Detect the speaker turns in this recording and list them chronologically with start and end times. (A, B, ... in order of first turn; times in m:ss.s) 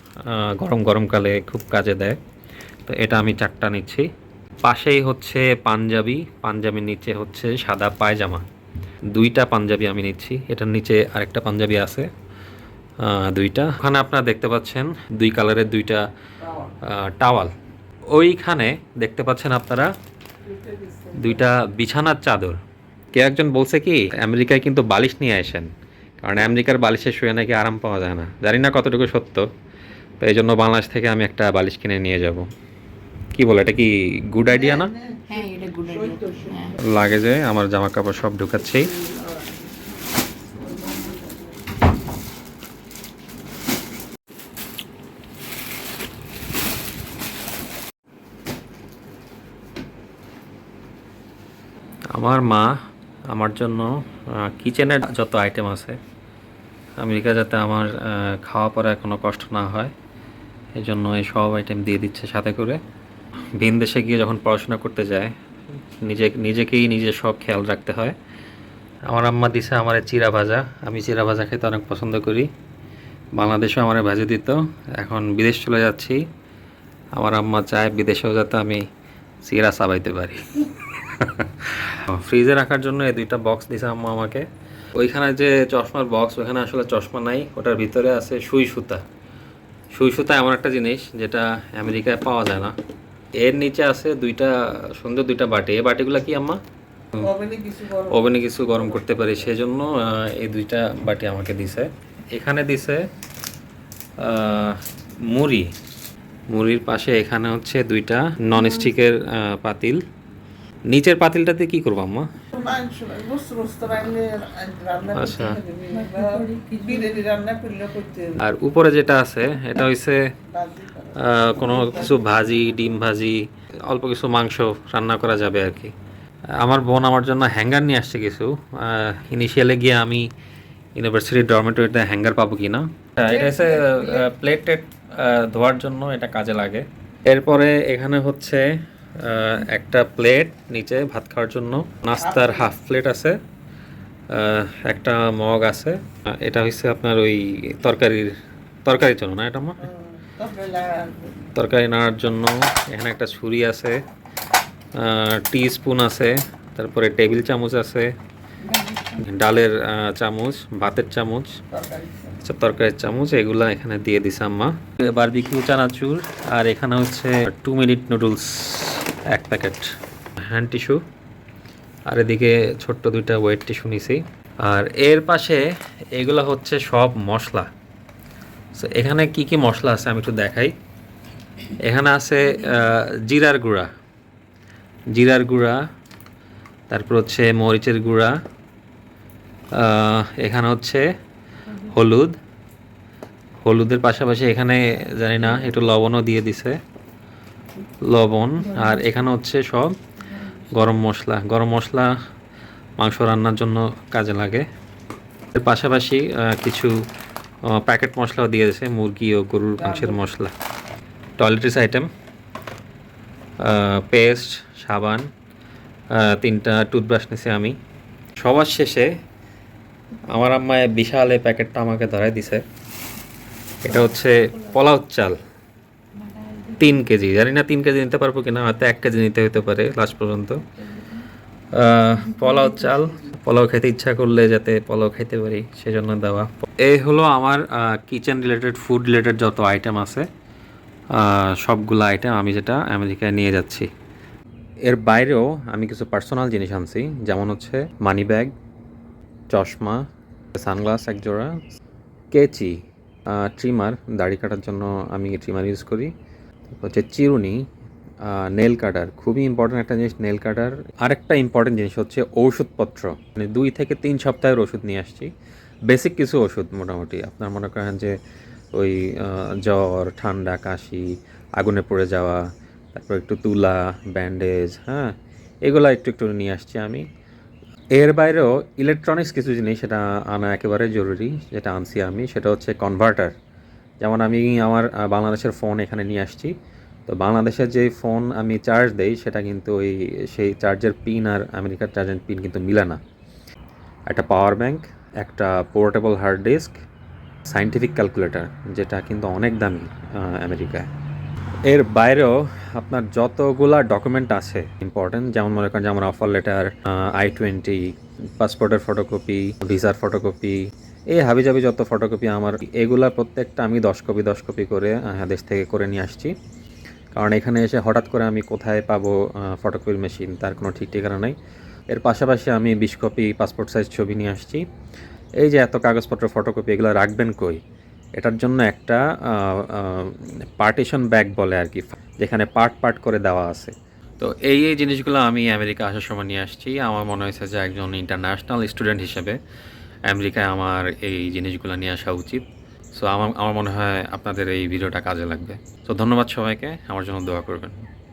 0:00.2-0:02.2 A
0:02.9-0:04.1 A
0:04.6-0:08.4 A
0:09.1-0:12.1 A
0:13.0-0:16.1 A
0:16.8-0:17.5 A
0:18.1-0:19.9 A
0:20.5-0:21.3 B
0:21.1-0:22.6 A
0:23.1-0:25.7 A
0:26.2-0:29.5 A
0:30.2-0:32.5 A
0:33.3-0:34.9 A
0:34.6-0:35.4 B
0:35.3-0:36.8 C
0:35.9-0:36.6 B
0:36.8-0:38.9 A
0:52.1-0:52.8 A
0:53.3-0:56.0 A
0:57.0-0:59.9 A
1:00.8-1:02.8 A
1:03.6-1:05.3 A
1:05.9-1:08.2 A
1:09.1-1:12.5 A
1:13.4-1:16.2 A
1:17.2-1:18.9 A
1:19.4-1:29.0 A
1:29.9-1:32.8 A
1:33.4-1:36.6 A
1:37.2-1:39.1 B
1:38.1-1:43.0 A
1:44.2-1:45.7 A
1:46.5-1:50.0 A
1:50.9-1:52.3 A
1:52.6-1:58.4 B
1:55.1-1:55.6 A
1:56.1-1:57.0 C
1:58.4-2:00.2 A
2:00.5-2:02.6 B
2:01.2-2:05.9 A
2:06.6-2:10.3 A
2:11.0-2:18.7 A
2:13.3-2:14.3 B
2:19.2-2:23.4 A
2:22.3-2:22.7 B
2:24.3-2:28.3 A
2:28.8-2:29.9 A
2:29.8-2:31.4 B
2:31.6-2:34.0 A
2:35.0-2:38.1 A
2:38.7-2:39.2 C
2:39.2-2:41.6 A
2:41.7-2:42.4 B
2:42.4-2:49.9 A
2:50.5-2:51.0 A
2:52.1-2:57.7 A
2:58.8-3:00.7 A
3:01.8-3:03.9 A
3:05.1-3:05.8 A
3:06.9-3:08.3 A
3:09.7-3:11.0 A
3:11.7-3:12.4 A
3:13.6-3:16.8 A
3:18.0-3:20.0 A
3:20.7-3:22.1 A
3:23.0-3:24.7 A
3:25.5-3:26.9 A
3:27.7-3:30.5 A
3:29.9-3:30.2 B
3:31.4-3:32.1 A
3:33.6-3:35.3 A
3:36.1-3:37.8 A
3:38.4-3:39.1 A
3:40.3-3:42.6 A
3:43.8-3:45.4 A
3:46.2-3:46.8 C
3:46.8-3:50.6 A
3:51.7-4:00.3 A
4:01.1-4:03.9 A
4:04.9-4:08.5 A
4:09.5-4:10.0 A
4:10.6-4:11.6 A
4:12.3-4:12.8 A
4:13.3-4:16.1 A
4:16.7-4:17.6 A
4:18.2-4:25.3 A
4:25.9-4:28.1 A
4:28.7-4:35.1 A
4:35.6-4:37.1 A
4:38.0-4:43.4 A
4:44.0-4:46.5 A
4:47.1-4:53.0 A
4:54.1-4:56.8 A
4:57.4-5:00.9 A
5:01.6-5:16.3 A
5:17.1-5:21.4 A
5:21.9-5:24.6 A
5:25.4-5:27.6 A
5:28.2-5:39.4 A
5:40.1-5:47.8 A